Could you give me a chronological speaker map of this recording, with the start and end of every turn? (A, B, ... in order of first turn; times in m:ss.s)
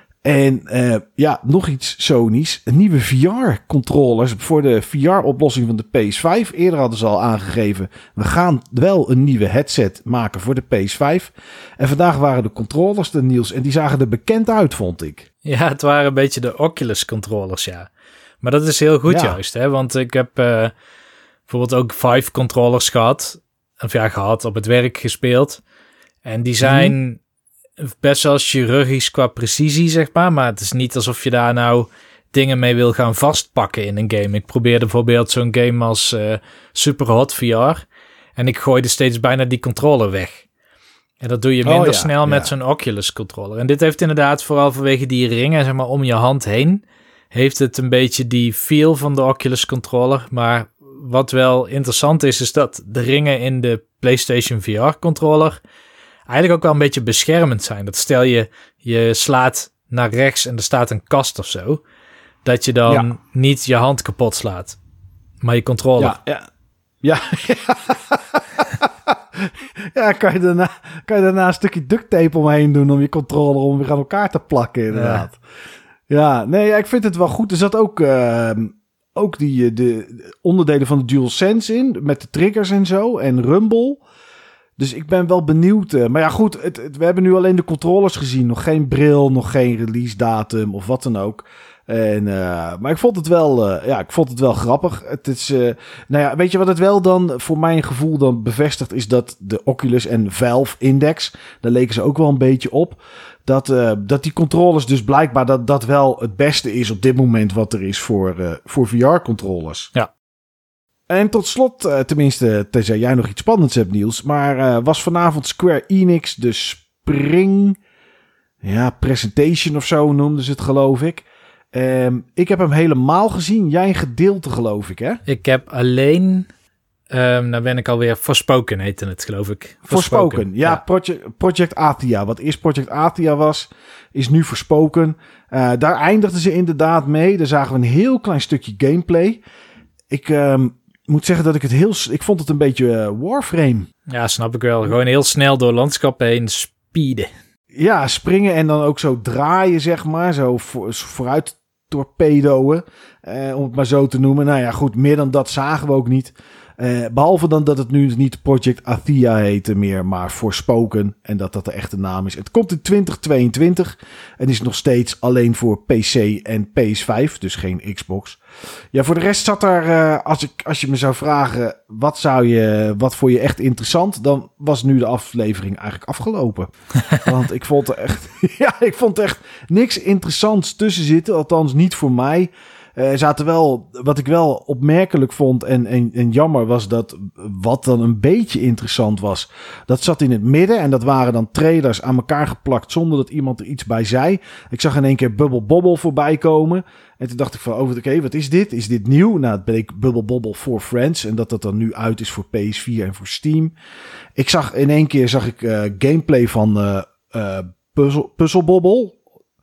0:00.2-0:15.3 A
0:15.4-0:17.9 B
0:18.4-0:20.7 B
0:19.1-0:19.4 A
0:21.5-0:25.6 B
0:26.2-0:27.2 B
0:26.6-0:26.9 A
0:27.8-0:37.8 B
0:38.4-0:40.5 B
0:41.2-0:55.6 B
0:41.6-0:42.5 A
0:56.3-1:01.8 B
1:02.4-1:04.8 B
1:05.4-1:06.2 B
1:06.0-1:06.5 A
1:07.0-1:15.4 A
1:14.9-1:15.3 B
1:16.1-1:24.0 A
1:24.8-1:49.9 A
1:51.1-1:57.8 A
1:58.6-2:05.2 A
2:05.2-2:06.5 B
2:07.1-2:10.8 B
2:09.9-2:19.4 A
2:20.1-2:23.9 A
2:24.1-2:27.3 B
2:27.7-2:48.4 A
2:48.9-3:23.7 A
3:24.4-3:29.2 A